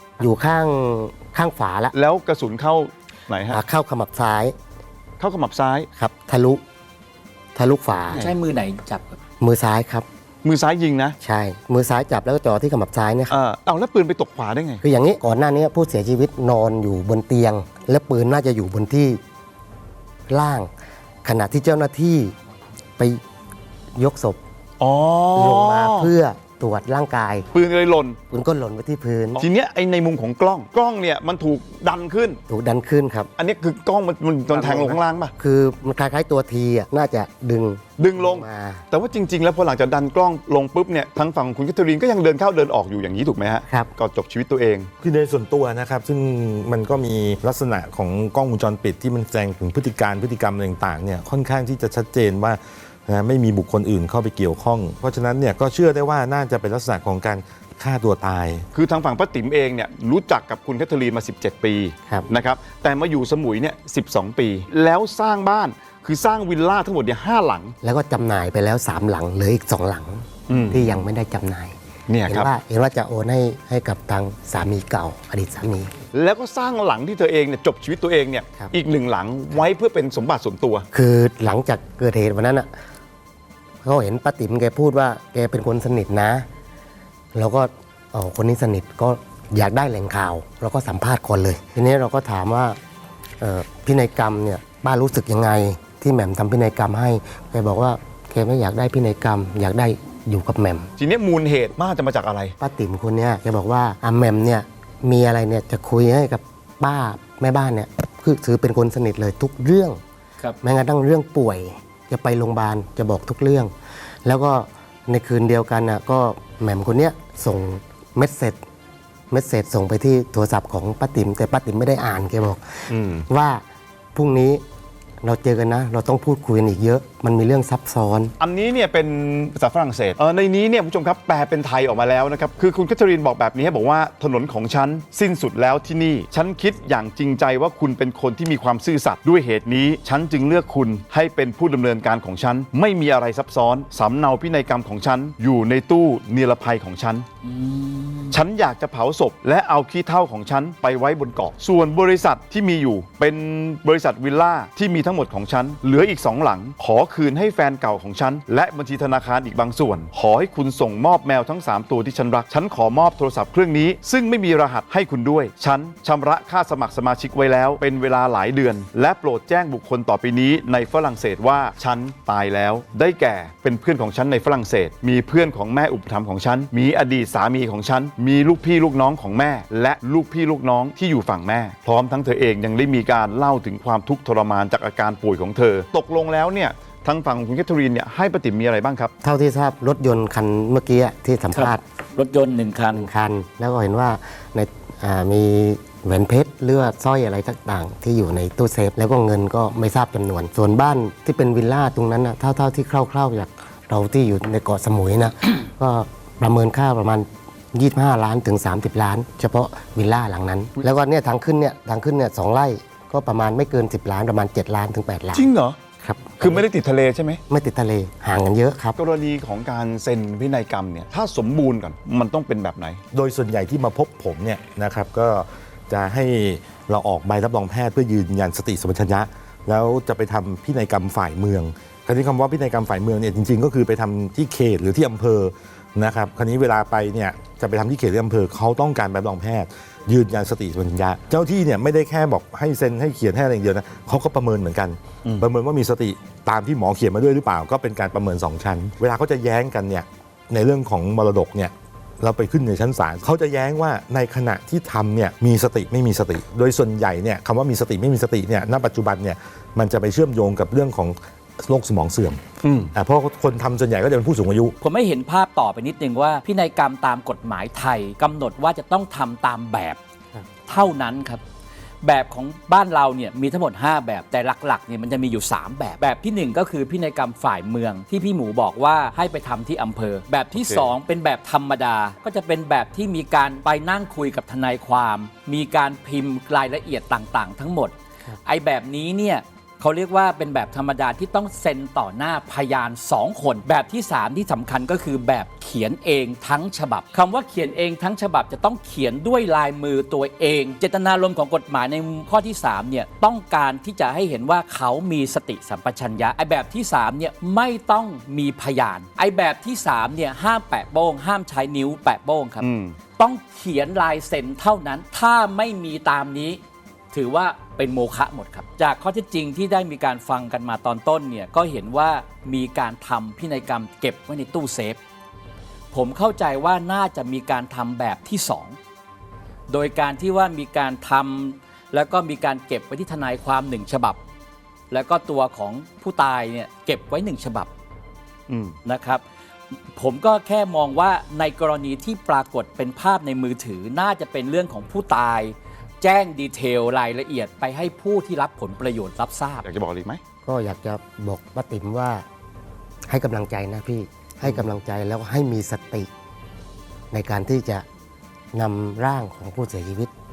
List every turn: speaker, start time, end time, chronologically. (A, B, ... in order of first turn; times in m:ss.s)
0:00.2-0:01.9 A
0:01.9-0:03.6 B
0:03.5-0:04.6 A
0:05.2-0:05.9 B
0:06.0-0:06.6 A
0:07.6-0:08.3 A
0:08.1-0:09.2 C
0:09.4-0:10.1 A
0:10.4-0:11.2 B
0:11.2-0:13.4 A
0:13.3-0:14.8 B
0:14.8-0:19.2 A
0:20.3-0:20.7 A
0:21.2-0:22.4 A
0:24.0-0:24.4 A
0:24.8-0:26.1 B
0:25.4-0:27.5 A
0:27.5-0:28.2 B
0:28.3-0:29.4 A
0:29.4-0:32.4 B
0:32.5-0:33.3 A
0:33.4-0:35.3 B
0:34.5-0:38.8 A
0:38.0-0:44.9 B
0:45.0-0:58.7 D
0:58.7-1:07.7 B
1:07.8-1:15.9 A
1:10.5-1:11.0 B
1:12.1-1:12.5 B
1:16.1-1:20.8 B
1:20.9-1:22.7 A
1:23.8-1:26.5 A
1:27.4-1:32.8 A
1:33.4-1:40.9 A
1:41.0-1:42.6 B
1:42.6-1:50.0 A
1:50.6-1:53.7 A
1:54.2-1:58.6 A
1:59.3-2:03.6 A
2:02.9-2:03.2 B
2:04.2-2:04.6 A
2:05.2-2:08.3 A
2:08.4-2:27.3 B
2:27.4-2:28.4 C
2:28.3-3:09.1 B
3:09.2-3:11.8 A
3:11.5-3:13.1 C
3:12.9-3:35.5 A
3:35.3-3:35.8 B
3:36.0-3:36.6 A
3:36.4-3:37.4 B
3:37.5-3:39.0 A
3:39.0-3:43.0 B
3:43.1-4:22.4 D
4:22.6-4:22.9 B
4:22.9-4:24.8 D
4:24.8-4:30.0 C
4:30.7-4:31.4 C
4:32.0-4:47.9 C
4:40.6-4:40.9 B
4:48.4-5:12.7 C
5:12.6-5:13.0 B
5:13.2-5:16.6 C
5:17.1-5:25.0 C
5:25.9-5:28.8 C
5:29.7-5:34.2 C
5:34.9-5:37.7 C
5:38.5-5:38.8 B
5:38.8-5:39.2 C
5:40.0-5:49.7 C
5:49.6-5:50.2 B
5:50.4-5:52.2 A
5:53.1-5:56.1 A
5:57.1-5:57.8 A
5:58.5-6:00.1 A